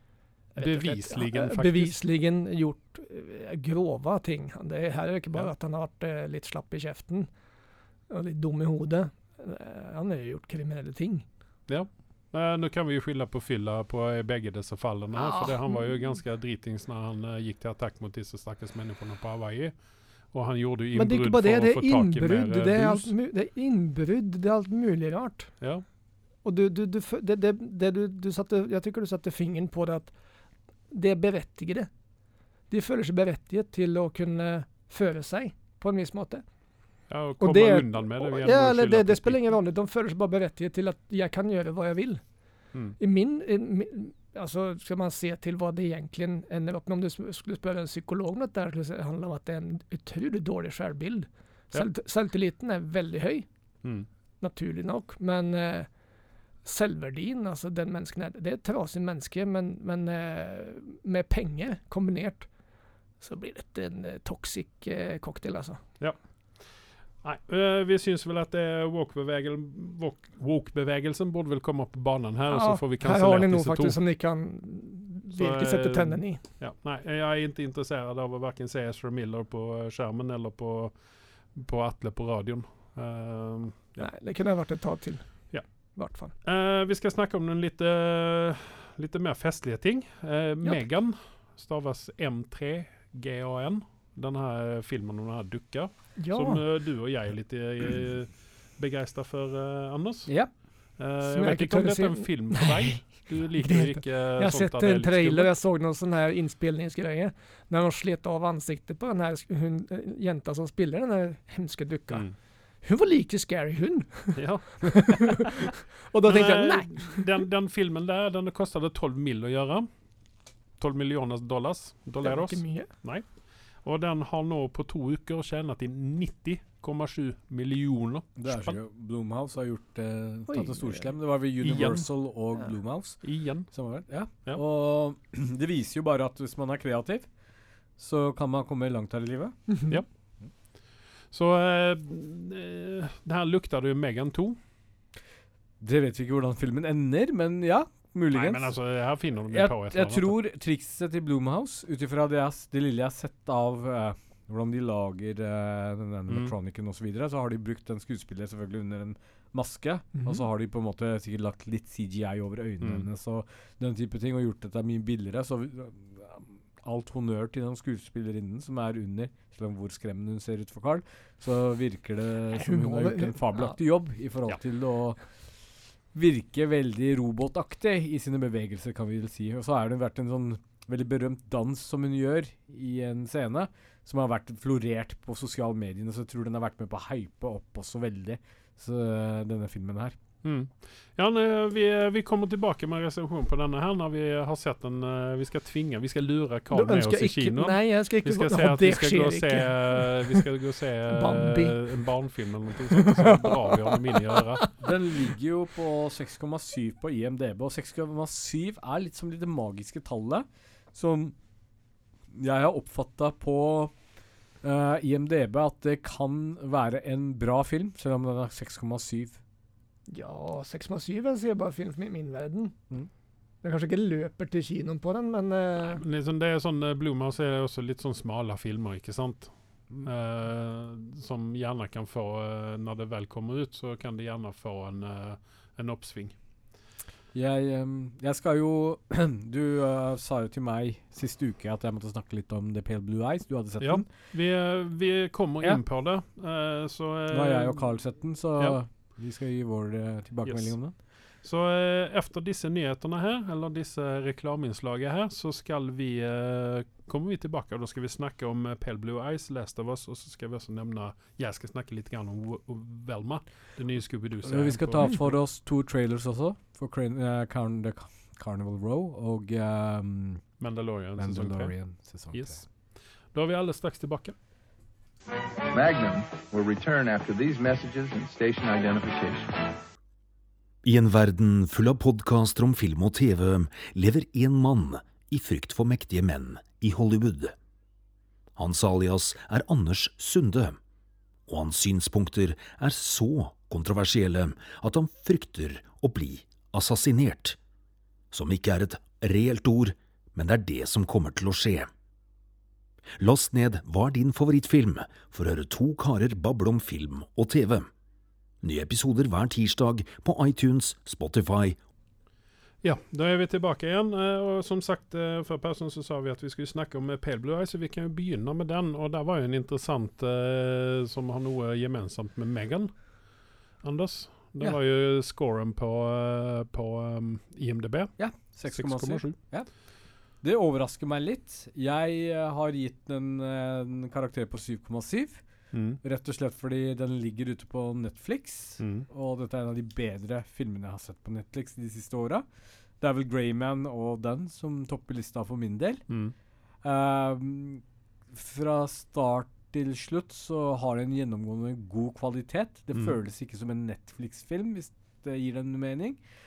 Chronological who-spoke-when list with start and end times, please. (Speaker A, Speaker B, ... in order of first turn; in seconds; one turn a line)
Speaker A: 0.5-2.0
Speaker B: 0.6-7.3
Speaker B: 8.1-11.2
Speaker A: 11.7-19.8
Speaker B: 15.1-15.9
Speaker A: 20.3-23.1
Speaker B: 20.9-25.6
Speaker B: 26.4-30.1
Speaker B: 30.9-31.9
Speaker B: 32.7-36.4
Speaker A: 37.1-39.4
Speaker B: 37.4-42.2
Speaker B: 43.0-53.5
Speaker B: 54.4-55.9
Speaker B: 56.6-62.5
Speaker B: 63.2-65.8
Speaker A: 67.2-74.0
Speaker B: 72.5-76.4
Speaker A: 75.3-80.9
Speaker A: 81.5-84.1
Speaker B: 84.0-86.3
Speaker A: 86.4-105.5
Speaker B: 96.2-96.6
Speaker C: 100.3-100.5
Speaker B: 101.2-112.3
Speaker B: 112.8-117.3
Speaker A: 114.3-115.5
Speaker A: 116.2-119.9
Speaker A: 120.8-128.8
Speaker B: 122.2-122.9
Speaker C: 128.4-137.3
Speaker B: 130.5-131.1
Speaker A: 131.6-132.3
Speaker A: 133.2-133.7
Speaker A: 134.3-134.6
Speaker C: 137.9-139.8
Speaker A: 141.3-144.6
Speaker C: 145.8-148.8
Speaker A: 148.3-150.3
Speaker C: 149.5-175.2
Speaker B: 172.5-173.8
Speaker C: 176.1-190.2
Speaker A: 190.4-204.6
Speaker B: 196.7-200.5
Speaker B: 201.1-202.0
Speaker B: 202.9-204.7
Speaker C: 204.8-211.3
Speaker C: 212.3-213.9
Speaker C: 214.6-219.4
Speaker B: 220.1-222.8
Speaker B: 223.6-226.0
Speaker A: 225.8-236.3
Speaker C: 237.3-244.1
Speaker A: 243.8-248.8
Speaker C: 247.3-250.9
Speaker A: 250.4-265.4
Speaker C: 264.4-270.5
Speaker A: 270.6-271.8
Speaker C: 271.2-272.6
Speaker A: 272.3-274.3
Speaker D: 275.7-279.7
Speaker E: 280.8-287.5
Speaker E: 288.6-290.8
Speaker E: 291.5-297.6
Speaker E: 298.3-301.9
Speaker E: 303.2-307.9
Speaker E: 308.6-311.8
Speaker A: 312.8-323.3
Speaker A: 323.8-329.4
Speaker C: 328.2-329.7
Speaker C: 330.4-335.4
Speaker A: 335.7-336.0
Speaker C: 336.0-342.4
Speaker A: 338.8-339.1
Speaker C: 343.0-346.0
Speaker C: 346.8-356.2